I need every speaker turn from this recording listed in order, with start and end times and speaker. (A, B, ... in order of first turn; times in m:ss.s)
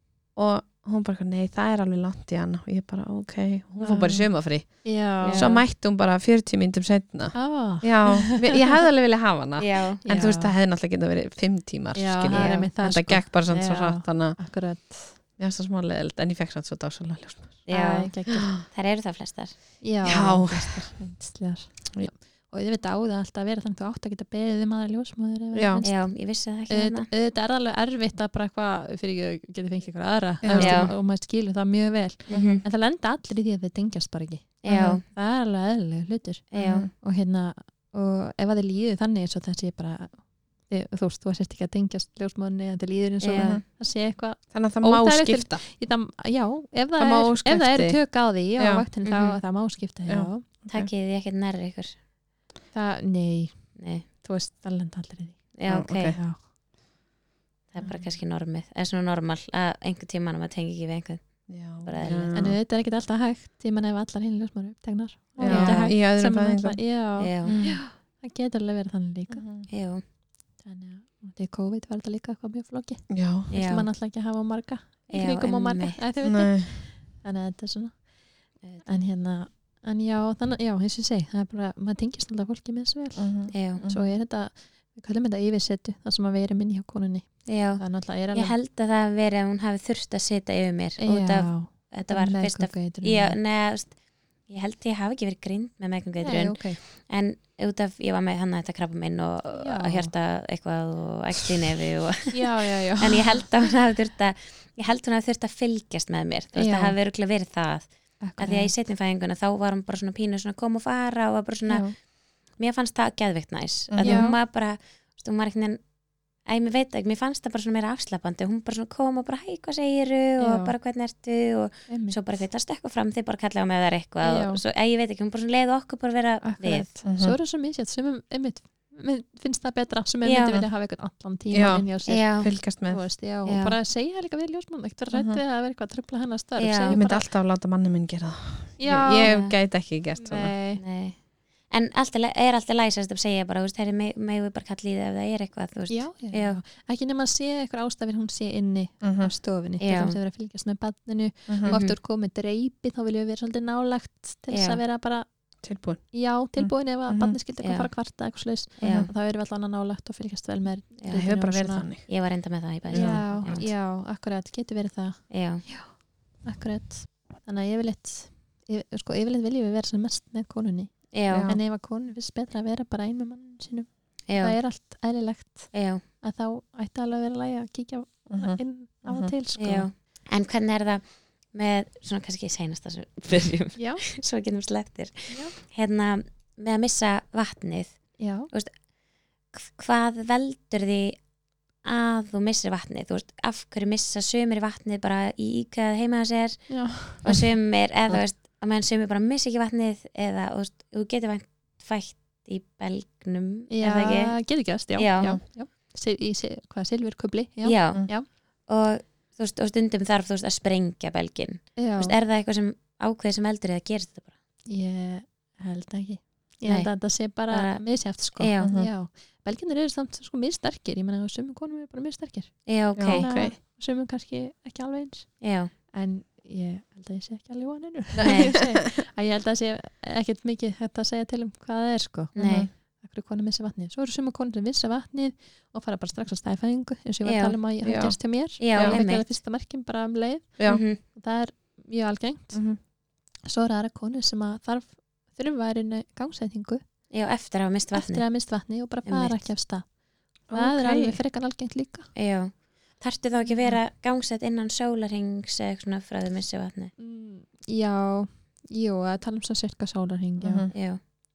0:00.3-0:14.4 A
0:03.8-0:05.6 B
0:05.2-0:05.6 C
0:07.3-0:08.6 B
0:09.6-0:10.2 C
0:10.0-0:10.5 B
0:12.0-0:15.2 B
0:12.3-0:12.7 C
0:15.4-0:17.7 A
0:17.7-0:18.6 B
0:17.7-0:19.6 C
0:18.3-0:18.6 A
0:19.8-0:50.5 B
0:20.0-0:20.9 A
0:25.5-0:25.8 A
0:25.8-0:27.1 C
0:30.4-0:30.8 A
0:30.6-0:31.0 C
0:32.3-0:32.6 C
0:32.3-0:32.6 A
0:34.6-0:35.0 C
0:34.7-0:35.0 A
0:36.5-0:36.9 C
0:36.6-0:36.9 A
0:43.2-0:43.6 C
0:43.4-0:43.6 A
0:44.5-0:45.6 A
0:47.0-0:48.9 A
0:49.0-0:49.4 C
0:50.1-0:50.9 A
0:50.7-0:52.0 C
0:52.7-0:56.4 B
0:53.8-0:54.1 C
0:55.6-0:56.2 C
0:55.7-0:56.2 A
0:57.7-1:02.4 C
1:01.5-1:02.6 A
1:02.3-1:09.7 B
1:05.4-1:05.9 C
1:05.4-1:06.8 A
1:07.2-1:07.7 C
1:07.4-1:07.8 A
1:09.3-1:09.7 A
1:09.7-1:10.0 C
1:10.6-1:28.6 B
1:13.1-1:13.5 A
1:13.5-1:13.9 C
1:15.1-1:16.0 C
1:16.2-1:16.7 A
1:23.2-1:24.0 A
1:23.5-1:23.8 C
1:27.5-2:06.9 C
1:31.0-1:33.4 B
1:36.2-1:36.8 B
1:39.5-1:40.1 B
1:42.3-1:43.3 B
1:46.6-1:47.0 B
1:48.2-1:48.7 B
1:51.7-1:51.9 B
1:53.9-1:54.3 A
1:54.0-1:54.4 B
2:00.4-2:00.7 B
2:01.9-2:02.3 B
2:04.2-2:04.6 B
2:06.4-2:17.3 B
2:07.0-2:07.4 A
2:10.2-2:10.6 C
2:11.5-2:13.1 A
2:12.1-2:12.6 C
2:13.4-2:13.8 C
2:15.1-2:15.4 A
2:16.6-2:17.0 C
2:16.9-2:20.5 A
2:18.8-2:19.4 B
2:19.2-2:19.5 C
2:20.2-2:20.8 B
2:20.8-2:26.6 C
2:25.9-2:35.3 B
2:29.0-2:29.3 A
2:29.8-2:30.2 C
2:31.5-2:31.8 A
2:31.7-2:32.0 C
2:34.5-2:34.8 C
2:35.6-2:37.4 A
2:36.1-2:42.0 B
2:37.6-2:37.9 C
2:38.8-2:39.1 C
2:38.8-2:39.1 A
2:41.1-2:42.1 A
2:42.1-2:43.7 C
2:42.9-2:43.3 A
2:42.9-2:59.9 B
2:45.3-2:45.7 C
2:51.1-2:51.5 C
2:51.3-2:51.6 A
2:54.3-2:54.6 C
2:55.7-2:56.0 C
2:58.3-2:59.3 A
2:59.6-3:08.7 C
3:03.8-3:04.0 B
3:05.3-3:05.6 B
3:08.2-3:08.5 B
3:09.5-3:11.2 C
3:11.8-3:25.4 C
3:16.7-3:17.2 B
3:23.7-3:28.3 B
3:27.6-3:34.3 C
3:31.8-3:32.2 B
3:34.7-4:02.8 B
3:36.6-3:38.8 C
3:38.6-3:38.9 A
3:42.7-3:43.3 C
3:43.0-3:43.6 A
3:45.4-3:45.7 C
3:48.1-3:49.0 A
3:48.2-3:48.5 C
3:52.4-3:52.7 C
3:52.4-3:52.7 A
3:57.2-3:57.6 C
3:57.8-3:59.0 A
3:58.6-3:59.3 C
4:00.6-4:00.8 A
4:00.7-4:01.0 C
4:02.5-4:02.8 A
4:03.4-4:06.8 B
4:07.1-4:09.5 C
4:07.9-4:12.1 B
4:10.5-4:11.2 A
4:12.2-4:16.9 C
4:17.0-4:20.8 B
4:20.4-4:20.8 A
4:20.7-4:21.0 C